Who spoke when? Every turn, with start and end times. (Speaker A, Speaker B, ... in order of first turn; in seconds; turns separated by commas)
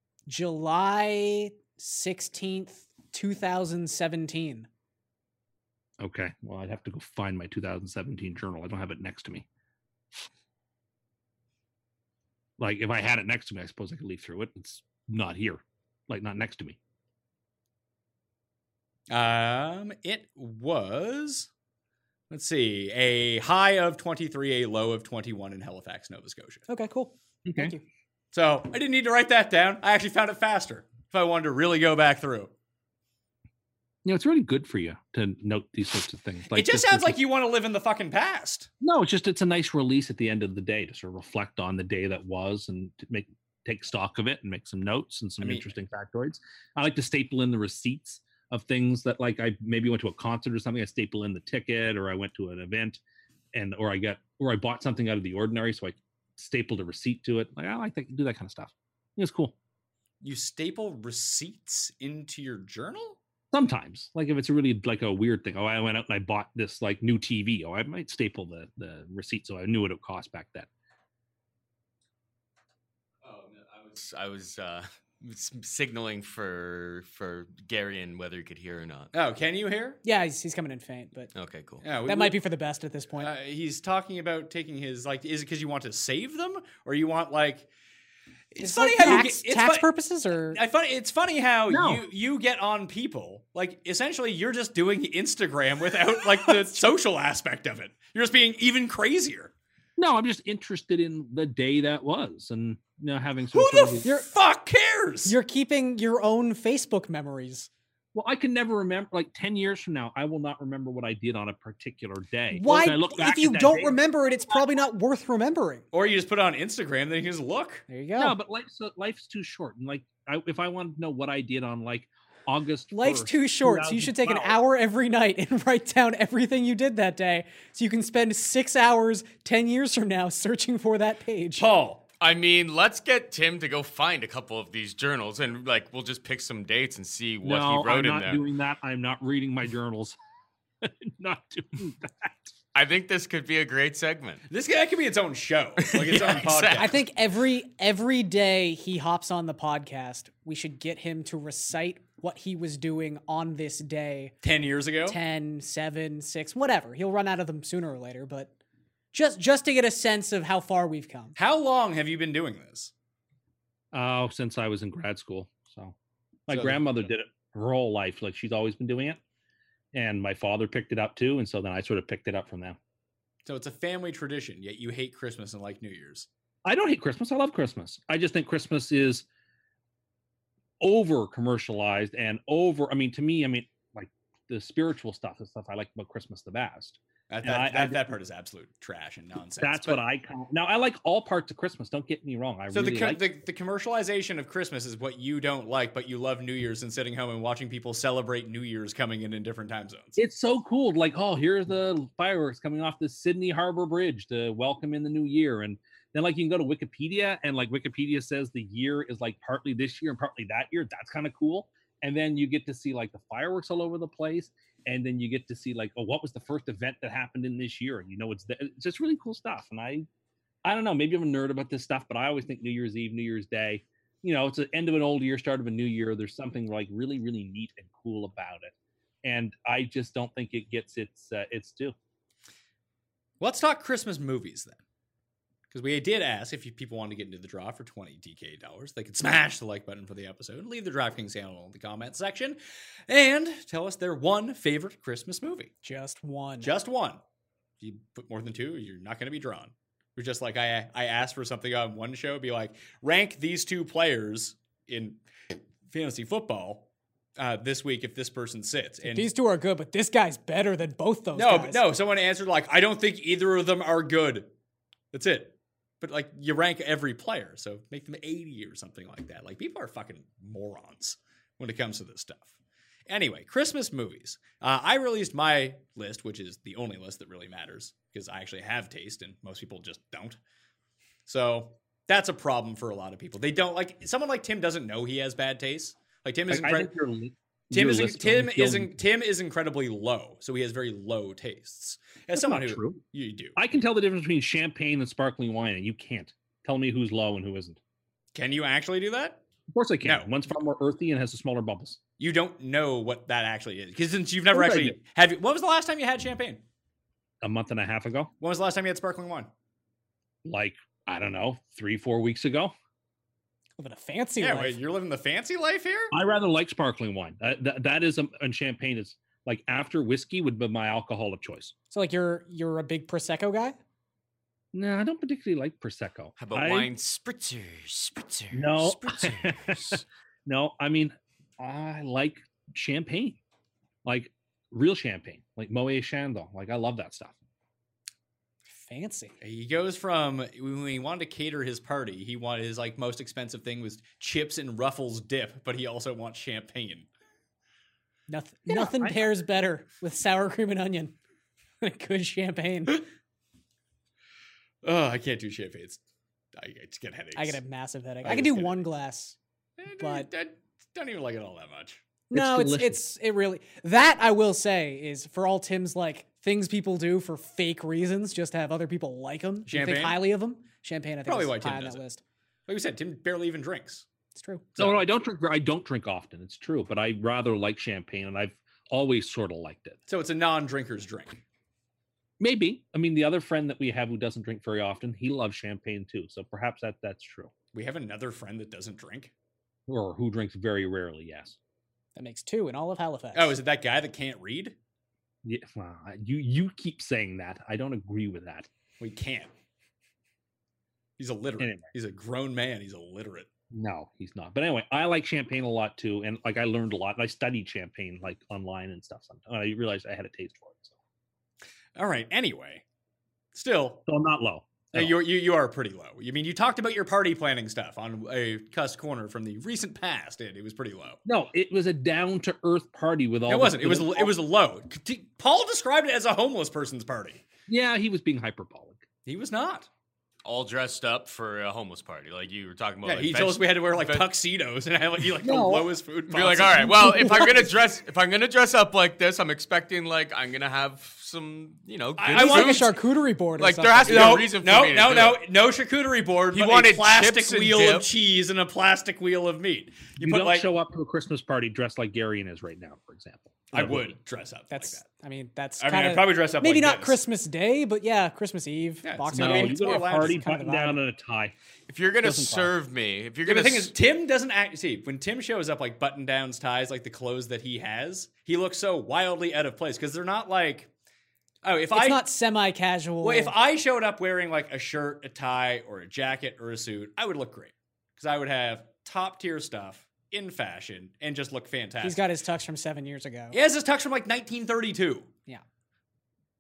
Speaker A: 0.3-4.7, Speaker B: 6.0-9.5, Speaker B: 12.6-16.8, Speaker C: 19.1-21.5, Speaker C: 22.3-26.6, Speaker A: 26.7-27.8, Speaker B: 27.4-27.8, Speaker C: 28.3-32.5, Speaker B: 34.0-37.2, Speaker C: 36.5-38.7, Speaker B: 38.8-53.0, Speaker C: 45.4-45.7, Speaker B: 53.5-59.5, Speaker C: 60.2-63.2, Speaker B: 63.5-70.7, Speaker D: 73.2-79.1, Speaker C: 79.1-80.0, Speaker A: 80.0-81.3, Speaker D: 81.3-81.8, Speaker C: 81.8-82.4, Speaker A: 82.1-83.3, Speaker C: 83.2-87.7, Speaker C: 88.5-89.9, Speaker A: 88.6-90.6, Speaker C: 90.5-99.5, Speaker B: 91.7-92.0, Speaker A: 96.3-96.8, Speaker B: 100.0-104.1, Speaker C: 103.5-105.3, Speaker A: 105.3-107.7, Speaker B: 108.1-114.0, Speaker A: 112.5-115.8, Speaker C: 115.9-117.8, Speaker A: 117.9-118.3, Speaker B: 118.2-124.6, Speaker A: 122.9-131.7, Speaker C: 131.6-132.1, Speaker D: 132.2-138.4, Speaker B: 137.4-140.2, Speaker B: 140.8-142.5, Speaker D: 142.7-144.4, Speaker C: 144.5-147.0, Speaker D: 145.8-147.0, Speaker A: 146.7-154.3, Speaker C: 154.4-155.2, Speaker A: 155.1-158.5, Speaker A: 159.1-161.4, Speaker C: 161.4-162.9, Speaker B: 163.9-165.9, Speaker B: 166.5-169.2, Speaker C: 166.5-167.0, Speaker B: 169.9-172.8, Speaker C: 173.5-176.3, Speaker B: 176.7-179.3, Speaker B: 180.8-188.1, Speaker C: 187.3-190.0, Speaker B: 189.6-193.2, Speaker C: 192.7-200.2, Speaker B: 200.2-220.1, Speaker B: 220.6-231.9, Speaker C: 233.4-234.8, Speaker C: 235.7-242.6, Speaker C: 243.1-245.7, Speaker A: 245.8-246.7, Speaker C: 246.6-247.2, Speaker C: 247.8-255.2, Speaker C: 255.9-259.3, Speaker A: 259.0-261.8, Speaker C: 261.4-264.5, Speaker C: 265.1-272.5, Speaker C: 273.1-280.4, Speaker C: 281.3-286.9, Speaker B: 286.5-288.9, Speaker C: 287.7-293.6, Speaker B: 292.4-293.0, Speaker B: 293.6-297.8, Speaker C: 298.4-299.4, Speaker B: 299.7-302.0, Speaker C: 300.0-300.3, Speaker C: 302.2-306.6, Speaker B: 304.5-305.0, Speaker B: 307.4-308.3, Speaker C: 308.4-309.5, Speaker B: 310.4-312.7, Speaker A: 313.8-314.8, Speaker C: 314.4-316.1, Speaker B: 316.1-321.7, Speaker A: 321.9-323.8, Speaker B: 324.7-326.9, Speaker D: 326.4-330.0, Speaker B: 328.5-333.4, Speaker B: 334.1-337.4, Speaker A: 338.7-339.3, Speaker C: 339.4-347.1, Speaker A: 348.3-351.2, Speaker B: 348.7-349.2, Speaker A: 351.8-353.1, Speaker C: 354.8-356.0, Speaker C: 356.6-357.6, Speaker A: 357.4-359.4, Speaker C: 358.2-358.9, Speaker C: 359.8-362.0, Speaker A: 360.0-360.3, Speaker A: 362.3-372.2, Speaker B: 362.3-363.0, Speaker C: 369.7-370.2, Speaker C: 371.3-372.0, Speaker C: 372.7-374.1, Speaker A: 374.4-374.7, Speaker C: 374.8-375.0, Speaker B: 374.8-380.0, Speaker C: 380.1-381.4, Speaker B: 382.4-387.5, Speaker C: 387.7-389.3, Speaker B: 389.9-391.6, Speaker A: 392.2-393.6, Speaker C: 393.3-394.8, Speaker B: 395.4-398.7, Speaker C: 399.0-399.5, Speaker C: 401.2-403.5, Speaker B: 401.6-401.9, Speaker B: 403.7-410.9, Speaker C: 412.0-412.8, Speaker C: 413.5-414.1, Speaker B: 414.1-415.2, Speaker C: 414.9-421.2, Speaker B: 421.3-424.3, Speaker C: 423.5-427.4, Speaker B: 427.7-429.0, Speaker C: 429.3-429.9, Speaker D: 430.4-434.3, Speaker C: 433.1-437.6, Speaker B: 435.4-435.9, Speaker D: 436.3-442.9, Speaker B: 437.0-437.4, Speaker C: 442.2-442.9, Speaker A: 442.3-444.4, Speaker D: 443.6-445.4, Speaker C: 444.1-450.7, Speaker D: 446.5-448.1, Speaker B: 450.2-454.1, Speaker C: 453.7-455.0, Speaker A: 454.7-461.0, Speaker C: 455.8-457.2, Speaker C: 459.0-460.5, Speaker B: 459.3-461.5, Speaker D: 461.9-463.9, Speaker B: 462.2-462.7, Speaker C: 463.4-470.9, Speaker C: 471.6-472.2, Speaker A: 471.9-473.5, Speaker C: 473.2-482.2, Speaker A: 482.0-483.6, Speaker C: 483.5-485.3